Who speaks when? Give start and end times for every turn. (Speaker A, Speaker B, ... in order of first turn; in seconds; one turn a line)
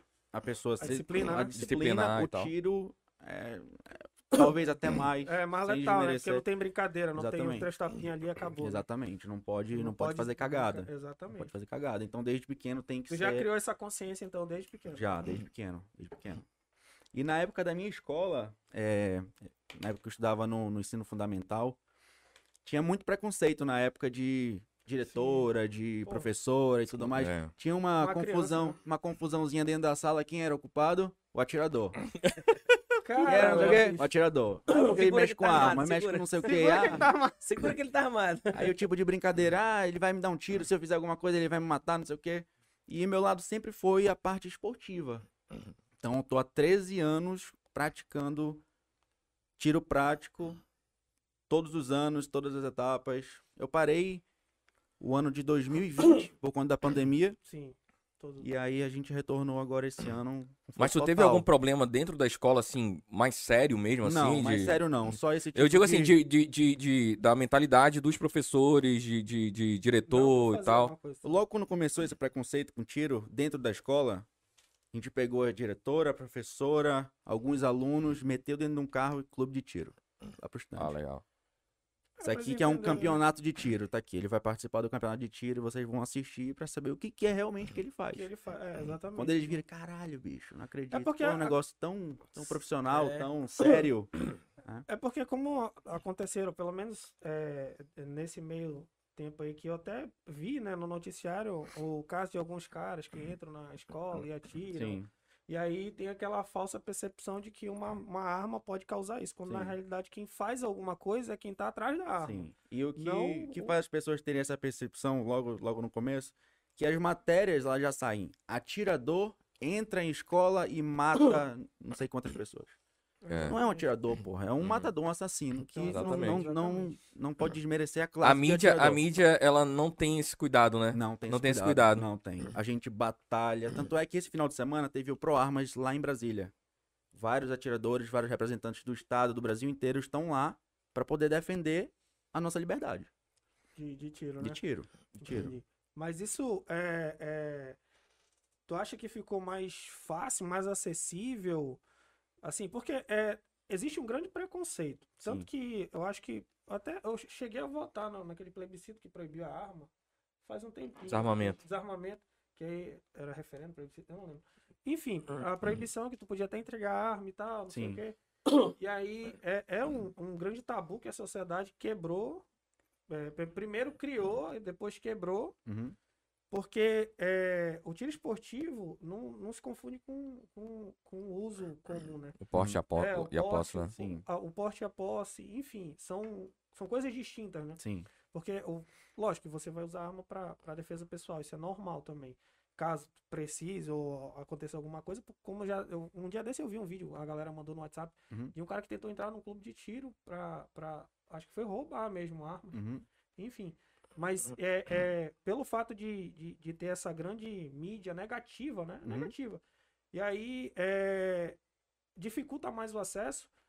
Speaker A: 0.3-6.5
Speaker B: 0.8-1.6
Speaker C: 1.4-2.5
Speaker B: 5.2-8.8
Speaker A: 7.2-7.7
Speaker A: 8.6-13.5
Speaker B: 9.7-11.5
Speaker B: 13.1-15.1
Speaker A: 14.9-16.5
Speaker A: 17.1-21.8
Speaker A: 22.6-32.0
Speaker B: 25.1-25.5
Speaker C: 27.1-27.5
Speaker B: 28.0-28.8
Speaker B: 33.0-34.1
Speaker A: 33.2-37.1
Speaker D: 33.3-33.8
Speaker D: 34.7-38.8
Speaker B: 35.5-35.8
Speaker B: 36.4-37.4
Speaker A: 38.5-45.3
Speaker A: 46.0-48.6
Speaker A: 49.6-50.6
Speaker A: 51.5-54.2
Speaker A: 55.0-57.4
Speaker B: 57.5-58.5
Speaker A: 58.4-61.5
Speaker C: 60.8-64.8
Speaker A: 64.0-66.2
Speaker C: 65.5-70.9
Speaker B: 70.1-71.4
Speaker A: 71.2-74.3
Speaker A: 74.9-81.0
Speaker C: 80.8-81.2
Speaker B: 82.2-83.2
Speaker A: 82.2-88.3
Speaker B: 88.1-89.6
Speaker A: 89.2-94.9
Speaker B: 90.9-91.6
Speaker D: 92.9-93.3
Speaker B: 94.9-113.7
Speaker A: 104.7-105.1
Speaker A: 109.5-109.8
Speaker A: 112.2-122.8
Speaker B: 123.2-123.9
Speaker C: 123.3-123.6
Speaker A: 123.4-129.0
Speaker C: 124.6-124.9
Speaker B: 125.7-127.0
Speaker C: 125.8-126.4
Speaker C: 128.2-132.1
Speaker A: 130.9-136.5
Speaker A: 137.1-143.1
Speaker B: 143.8-144.6
Speaker A: 144.4-145.5
Speaker B: 145.1-147.8
Speaker B: 148.7-151.8
Speaker B: 152.4-159.9
Speaker B: 160.4-172.5
Speaker C: 161.1-161.6
Speaker A: 167.7-168.0
Speaker B: 173.1-175.6
Speaker A: 175.7-176.0
Speaker B: 176.5-182.4
Speaker C: 182.4-183.9
Speaker A: 182.5-182.8
Speaker B: 182.9-187.8
Speaker A: 184.0-184.2
Speaker A: 187.8-188.1
Speaker B: 188.3-202.8
Speaker A: 202.7-203.1
Speaker B: 203.4-211.6
Speaker A: 209.0-209.3
Speaker B: 212.2-213.5